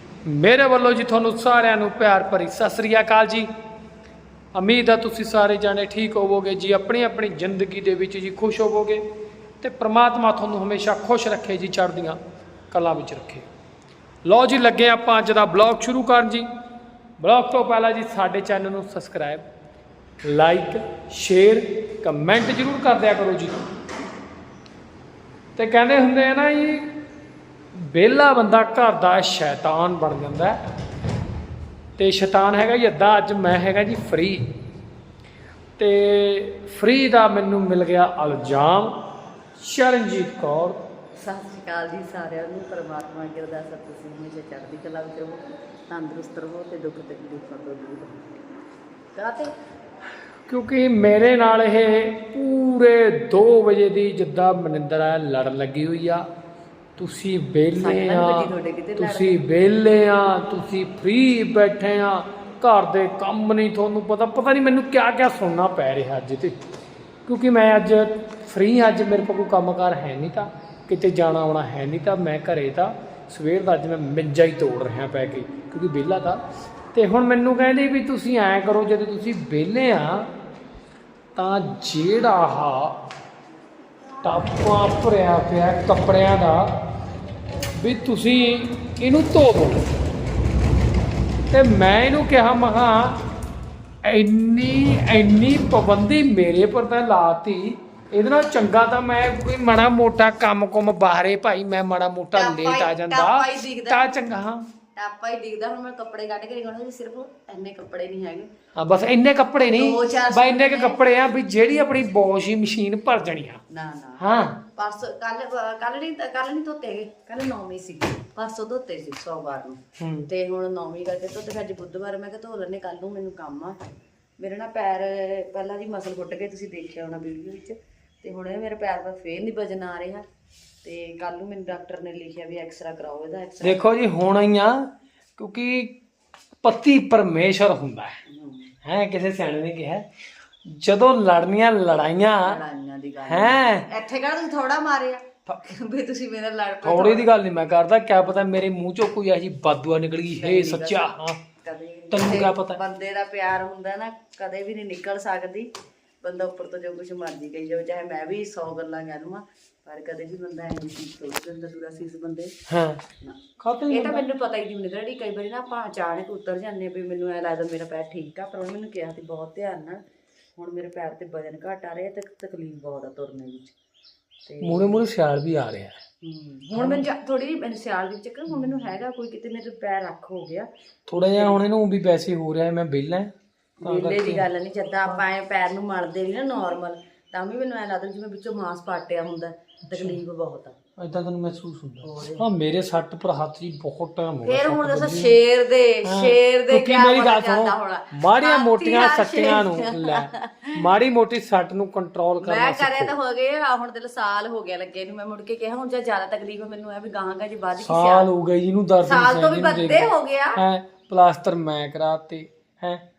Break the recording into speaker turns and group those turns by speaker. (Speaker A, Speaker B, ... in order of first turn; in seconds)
Speaker A: 0.2-3.5, 4.5-9.0, 9.6-12.2, 12.7-13.5, 14.2-16.5, 17.2-19.4, 20.2-23.6, 25.5-26.9, 27.7-30.6, 32.0-34.5, 35.8-39.0, 39.6-40.8, 50.5-56.2, 57.0-66.6, 67.2-76.4, 76.9-80.3, 81.3-83.0, 84.2-86.7, 87.8-89.9, 91.5-93.2, 94.0-104.7, 108.8-113.6, 114.2-114.6, 120.0-120.3, 133.6-135.9, 136.6-138.2, 138.8-140.0, 140.7-142.6, 143.2-143.9, 145.5-145.7, 146.8-151.4, 152.1-152.8, 162.7-163.0, 163.6-164.2, 174.6-176.0, 176.7-177.1, 181.1-183.3, 183.8-184.4, 189.9-190.2, 191.0-195.3, 196.0-203.1, 207.8-213.0
Speaker B: 41.2-48.4, 49.1-49.5, 57.8-59.7, 102.3-104.2, 105.0-108.5, 109.6-111.0, 113.7-123.8, 124.4-130.2, 130.8-134.0, 138.2-138.8, 142.4-147.3, 150.3-155.7, 156.2-162.5, 163.2-170.0, 170.6-173.7, 174.4-175.0, 176.2-180.7, 181.3-181.6, 183.8-190.8, 192.0-192.5, 194.4-200.7, 202.4-208.3, 209.0-210.6